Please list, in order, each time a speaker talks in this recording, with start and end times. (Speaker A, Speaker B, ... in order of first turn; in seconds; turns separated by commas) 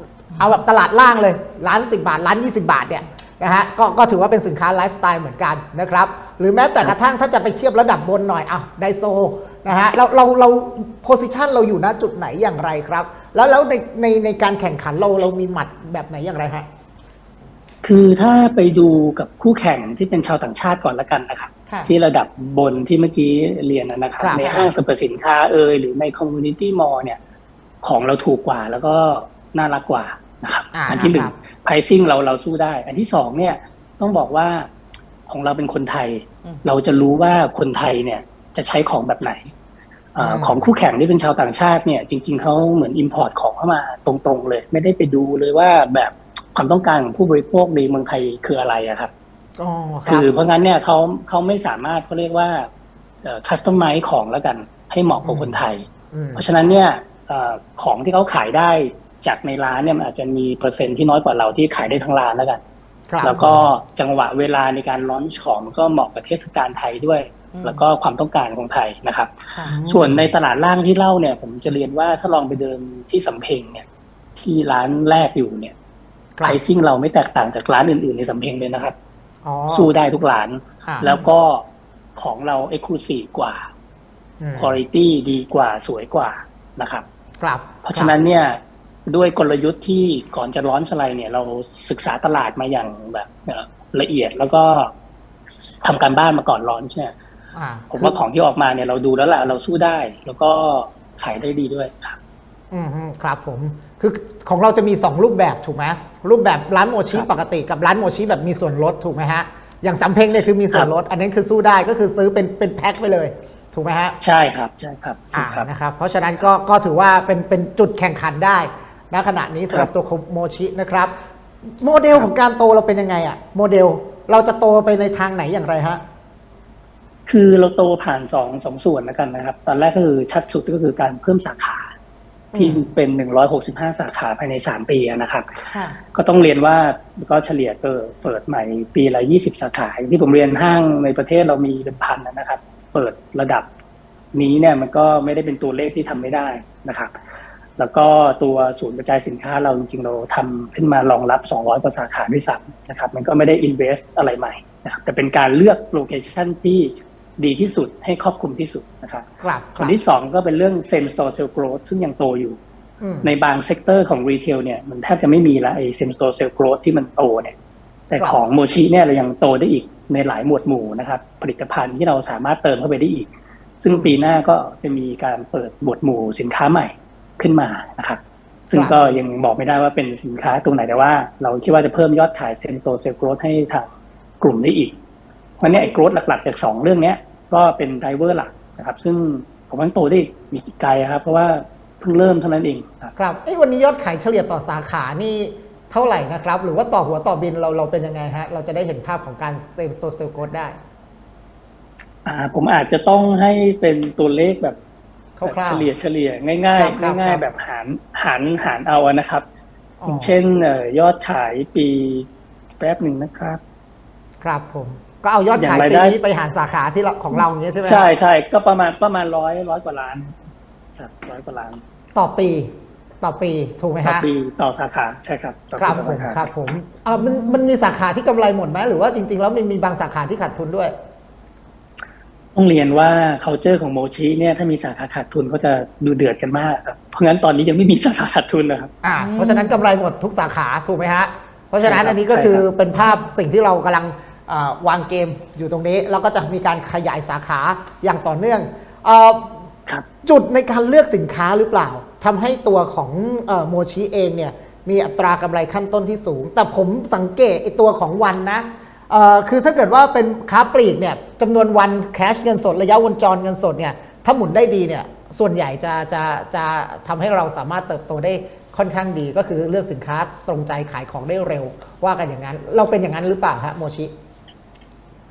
Speaker A: 0.4-16.7, Speaker B: 17.8-27.2, Speaker C: 21.7-21.9, Speaker A: 24.2-24.7, Speaker C: 24.4-24.7, Speaker B: 27.8-34.7, Speaker A: 30.7-31.4, Speaker B: 35.3-39.5, Speaker B: 40.1-49.1, Speaker A: 40.2-40.7, Speaker A: 49.6-50.3, Speaker B: 50.1-52.7, Speaker B: 53.2-62.6, Speaker A: 55.2-55.6, Speaker A: 56.1-56.5, Speaker A: 63.1-63.7, Speaker B: 63.2-73.8, Speaker C: 67.5-67.8, Speaker A: 69.7-70.3, Speaker B: 74.4-75.7, Speaker B: 76.4-79.0, Speaker A: 79.4-80.0, Speaker B: 79.7-83.7, Speaker A: 80.9-81.2, Speaker A: 84.4-84.8, Speaker B: 84.6-87.1, Speaker A: 87.4-88.2, Speaker B: 87.8-94.9, Speaker B: 95.8-97.1, Speaker A: 97.5-98.2, Speaker B: 97.9-102.2, Speaker A: 102.7-114.2, Speaker B: 114.2-115.7, Speaker A: 115.3-121.1, Speaker A: 121.8-126.0, Speaker B: 127.3-131.9, Speaker A: 132.5-132.8, Speaker B: 132.6-135.5, Speaker C: 135.7-136.0, Speaker B: 136.1-143.7, Speaker B: 144.3-147.1, Speaker B: 147.8-162.6, Speaker A: 159.4-160.0, Speaker A: 163.0-163.3, Speaker B: 163.2-167.6, Speaker B: 168.1-173.3, Speaker B: 173.8-183.9, Speaker A: 178.7-179.2, Speaker B: 184.4-184.9, Speaker B: 185.6-193.1, Speaker A: 193.2-200.8, Speaker B: 202.2-204.8, Speaker A: 205.4-205.9, Speaker B: 205.4-209.4, Speaker A: 206.8-207.4, Speaker A: 210.0-210.3, Speaker B: 210.1-212.3, Speaker B: 212.8-213.6, Speaker A: 214.4-218.1, Speaker B: 215.5-216.2, Speaker B: 217.3-220.3, Speaker B: 221.0-221.8, Speaker A: 222.2-224.3, Speaker B: 224.0-226.5, Speaker A: 225.8-230.9, Speaker C: 227.2-227.6, Speaker B: 232.6-238.9, Speaker A: 239.0-249.6, Speaker C: 239.1-239.8, Speaker B: 241.8-242.7, Speaker A: 250.2-274.1